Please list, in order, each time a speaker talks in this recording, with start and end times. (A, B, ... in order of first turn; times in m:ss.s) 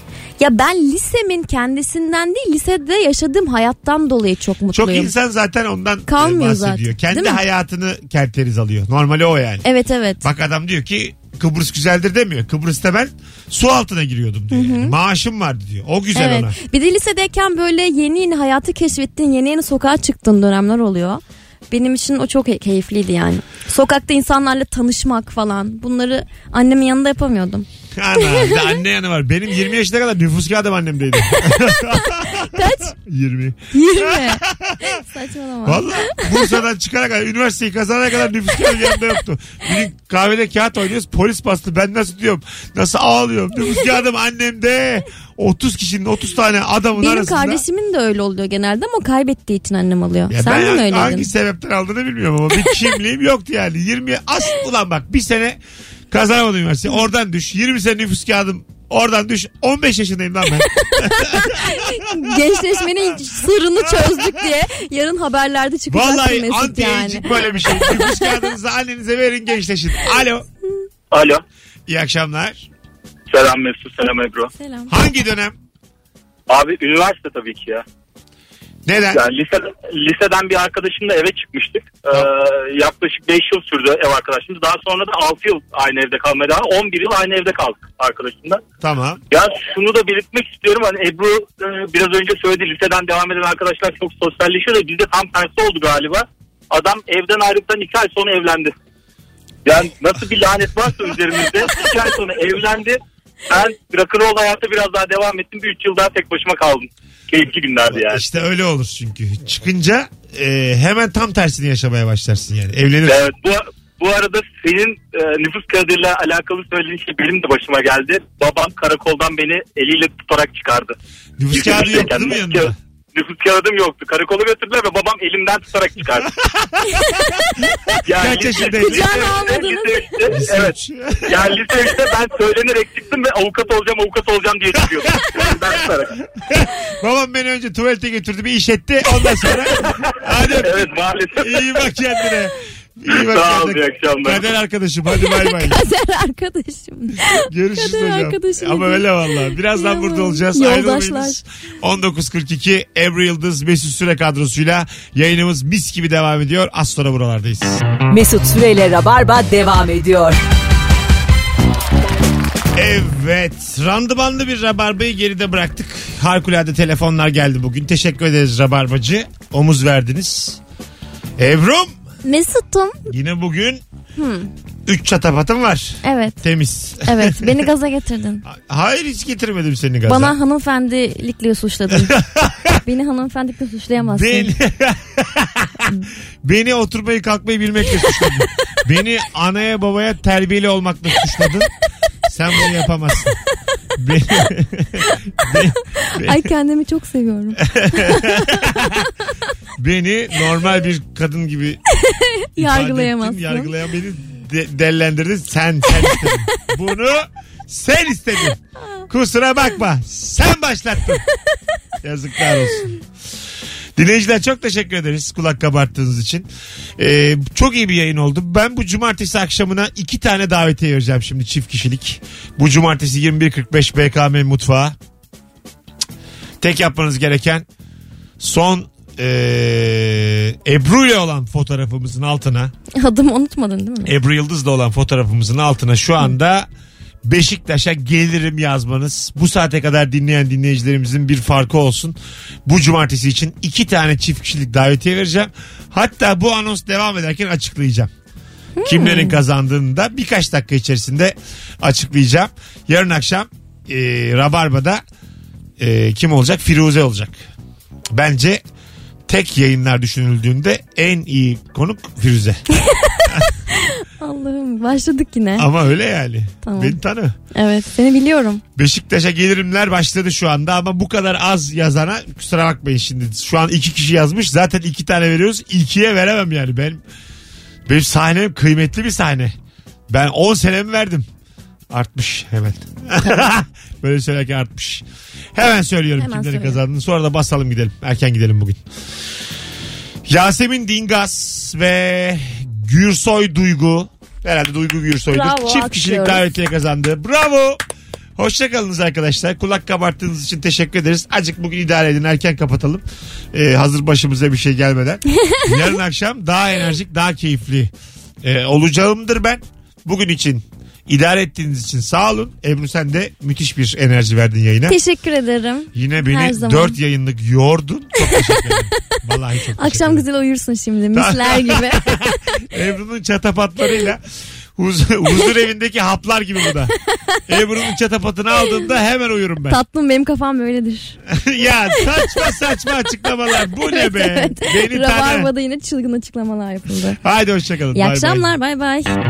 0:00.4-0:05.1 A
0:04.7-0:09.6 B
0:06.1-0:07.4 A
0:09.6-0:10.2 A
0:10.2-0:16.6 B
0:14.5-0:14.9 A
0:16.1-0:28.8 A
0:28.0-0:34.9 B
0:31.3-0:32.9 A
0:33.7-0:36.6 A
0:35.6-0:47.6 B
0:47.0-0:51.3 A
0:50.3-0:55.6 B
0:56.1-1:02.0 B
1:01.0-1:08.4 A
1:03.8-1:04.3 B
1:05.9-1:10.5 B
1:11.1-1:11.4 C
1:11.9-1:12.7 B
1:13.3-1:14.5 C
1:14.5-1:14.9 A
1:14.9-1:15.5 B
1:16.5-1:17.8 C
1:18.8-1:19.3 B
1:19.1-1:28.6 C
1:28.8-1:29.2 B
1:29.3-1:38.7 C
1:39.6-1:48.2 C
1:47.9-1:53.3 B
1:53.1-2:00.9 C
2:01.4-2:02.8 B
2:01.5-2:06.3 C
2:06.4-2:07.2 B
2:07.0-2:07.2 A
2:07.9-2:09.3 B
2:08.0-2:10.7 C
2:08.7-2:10.2 A
2:10.3-2:11.6 B
2:11.3-2:16.1 C
2:15.0-2:15.7 B
2:16.4-2:25.8 B
2:20.6-2:21.7 C
2:23.1-2:24.4 C
2:25.1-2:31.4 A
2:27.4-2:37.8 B
2:38.1-2:40.4 D
2:42.7-2:50.6 B
2:51.4-2:51.9 B
2:52.2-2:53.1 A
2:53.1-2:53.8 B
2:54.2-2:54.5 A
2:54.8-2:57.7 B
2:56.0-2:56.4 A
2:57.0-2:58.4 A
2:58.4-3:00.4 B
3:00.1-3:02.1 A
3:01.9-3:02.8 B
3:02.8-3:04.5 A
3:04.0-3:05.9 B
3:06.4-3:11.7 B
3:12.2-3:13.4 B
3:14.0-3:16.5 B
3:16.0-3:18.8 A
3:17.6-3:19.0 B
3:19.8-3:21.8 B
3:22.0-3:23.7 A
3:22.6-3:31.2 B
3:26.0-3:26.3 A
3:32.0-3:33.0 B
3:34.0-3:36.5 B
3:37.0-3:44.9 B
3:46.6-3:47.6 B
3:48.4-3:52.7 B
3:52.9-3:54.1 A
3:54.0-3:56.7 B
3:57.2-4:08.1 B
4:08.8-4:09.4 A
4:08.8-4:15.0 B
4:15.8-4:17.4 B
4:18.1-4:18.6 B
4:19.3-4:22.6 B
4:22.8-4:23.2 A
4:23.7-4:25.7 A
4:25.6-4:27.4 B
4:26.6-4:27.0 A
4:27.5-4:28.6 A
4:28.8-4:37.0 B
4:37.9-4:39.5 B
4:40.1-4:41.3 B
4:41.9-4:48.8 B
4:46.2-4:46.8 A
4:50.2-4:57.8 B
4:55.3-4:56.4 A
4:58.4-5:07.9 B
5:08.4-5:15.0 B
5:14.9-5:17.0 A
5:15.9-5:20.2 B
5:18.3-5:18.7 A
5:19.8-5:22.6 A
5:21.1-5:24.2 B
5:24.8-5:26.9 B
5:27.1-5:27.4 A
5:27.5-5:29.8 B
5:29.7-5:31.2 A
5:31.3-5:35.5 B
5:32.0-5:32.3 A
5:33.8-5:37.2 A
5:37.2-5:38.5 B
5:37.9-5:39.1 A